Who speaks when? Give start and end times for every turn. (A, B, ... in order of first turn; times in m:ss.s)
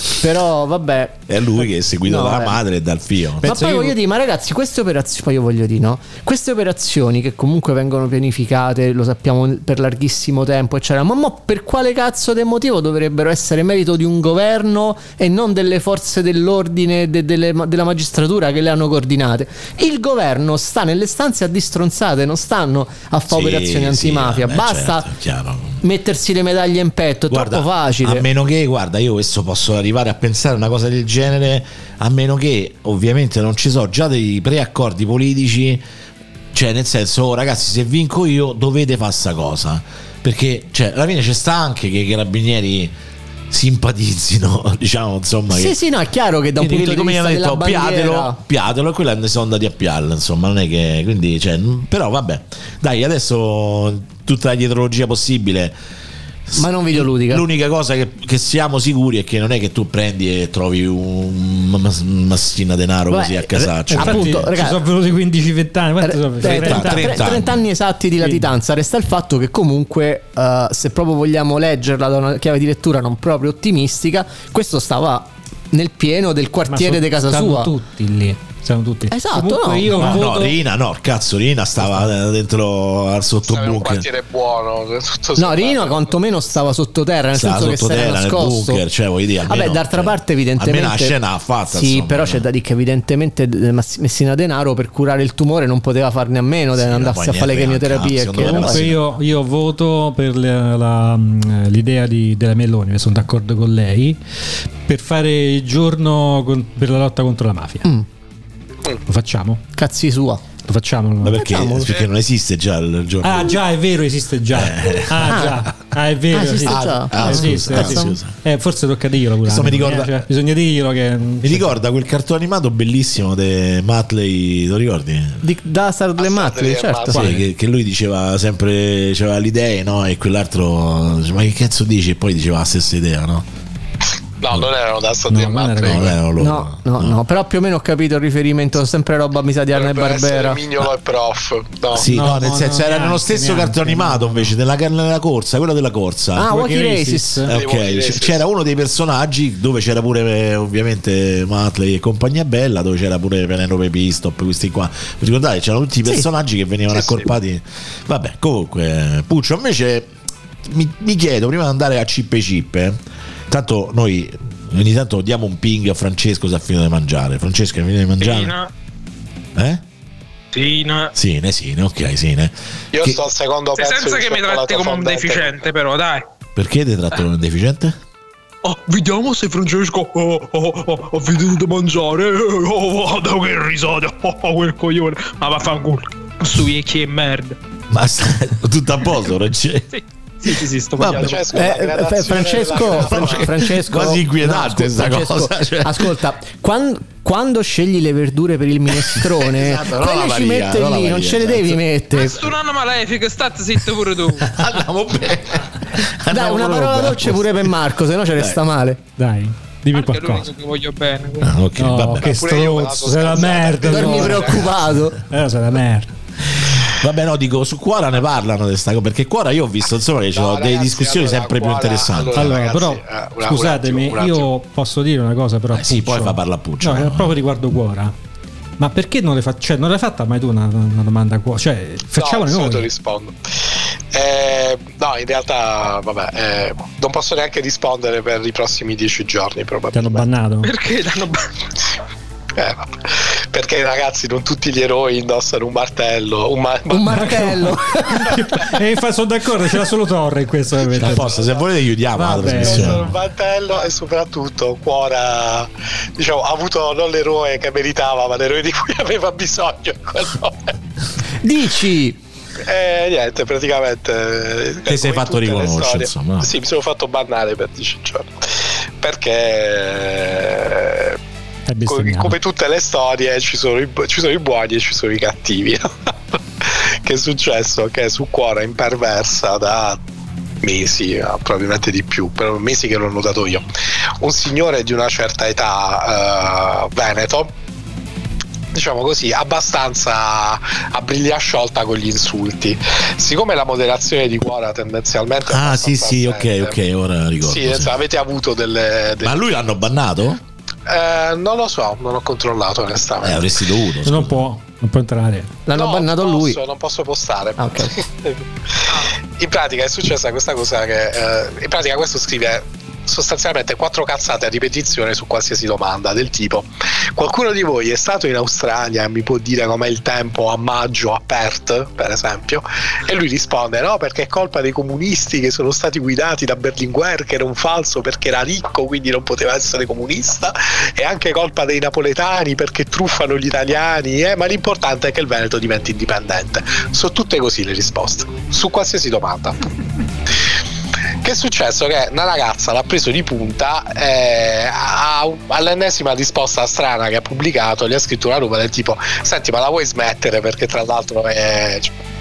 0:00.1-0:01.2 A
0:01.3-0:03.6 B
0:02.0-0:02.6 A
0:03.4-0:04.0 C
0:03.4-0:25.1 A
0:23.3-0:25.8 B
0:25.8-0:28.2 A
0:27.3-0:35.8 B
0:36.5-0:42.9 B
0:43.5-0:45.8 B
0:45.5-0:48.4 A
0:46.6-0:55.8 B
0:56.5-1:04.5 B
0:56.6-0:57.4 A
1:03.1-1:04.8 A
1:03.9-1:07.4 C
1:06.0-1:17.7 A
1:06.4-1:07.6 B
1:08.2-1:08.6 C
1:16.7-1:20.6 C
1:19.1-1:20.2 A
1:19.9-1:24.0 B
1:23.5-1:26.6 D
1:25.4-1:28.8 A
1:27.3-1:32.4 B
1:29.5-1:31.2 A
1:31.7-1:38.8 A
1:36.7-1:39.0 B
1:38.4-1:44.2 C
1:44.8-1:47.9 C
1:49.1-1:49.6 C
1:49.8-1:50.4 A
1:50.7-1:51.4 C
1:51.2-1:53.6 B
1:51.3-1:52.0 A
1:53.2-2:01.7 C
1:54.5-1:55.7 B
1:55.2-1:55.5 A
1:56.3-1:58.2 A
1:56.6-1:58.4 B
1:59.4-2:00.2 B
2:01.4-2:05.4 B
2:05.4-2:07.3 A
2:06.2-2:07.3 D
2:07.1-2:13.4 B
2:07.1-2:07.4 C
2:14.4-2:16.1 D
2:15.3-2:16.1 C
2:15.8-2:17.2 B
2:16.4-2:20.6 A
2:19.7-2:22.1 D
2:21.9-2:26.5 B
2:22.0-2:24.5 C
2:26.4-2:27.4 A
2:26.4-2:27.5 C
2:27.4-2:40.1 B
2:27.5-2:28.4 D
2:36.9-2:37.2 D
2:40.6-2:48.5 B
2:48.2-2:48.7 E
2:49.6-2:49.8 B
2:50.5-2:51.1 E
2:51.1-2:53.2 B
2:52.9-2:55.7 D
2:53.7-2:56.2 E
2:56.6-2:58.0 B
2:58.6-3:07.6 E
3:07.9-3:09.9 B
3:09.9-3:11.6 E
3:11.0-3:11.4 B
3:11.0-3:13.5 D
3:11.5-3:22.4 A
3:12.9-3:16.1 B
3:19.0-3:21.8 B
3:22.1-3:24.5 E
3:24.4-3:27.7 B
3:26.3-3:29.0 A
3:29.2-3:30.5 C
3:29.9-3:31.5 E
3:31.4-3:32.4 B
3:31.8-3:34.7 C
3:32.2-3:34.7 D
3:33.9-3:35.2 A
3:35.2-3:36.1 C
3:36.6-3:42.5 B
3:40.3-3:44.5 D
3:42.3-3:48.1 C
3:45.7-3:47.4 B
3:48.8-3:52.9 C
3:52.2-4:00.3 D
3:59.9-4:00.7 C
4:00.6-4:01.4 E
4:02.6-4:07.5 D
4:06.9-4:08.3 A
4:07.1-4:11.4 C
4:11.0-4:13.1 B
4:11.2-4:11.5 D
4:12.1-4:13.0 C
4:12.5-4:20.7 D
4:21.4-4:22.2 A
4:22.6-4:31.2 D
4:24.8-4:26.5 B
4:31.7-4:32.4 C
4:31.8-4:40.0 D
4:40.6-4:43.6 D
4:44.2-4:47.5 D
4:48.7-4:56.7 D
4:55.5-4:57.9 B
4:57.4-4:59.5 D
4:59.2-5:00.4 B
5:00.9-5:03.5 D
5:03.2-5:04.4 B
5:04.0-5:05.6 C
5:05.6-5:06.6 A
5:05.7-5:39.6 D
5:07.6-5:07.9 A
5:41.2-5:52.0 D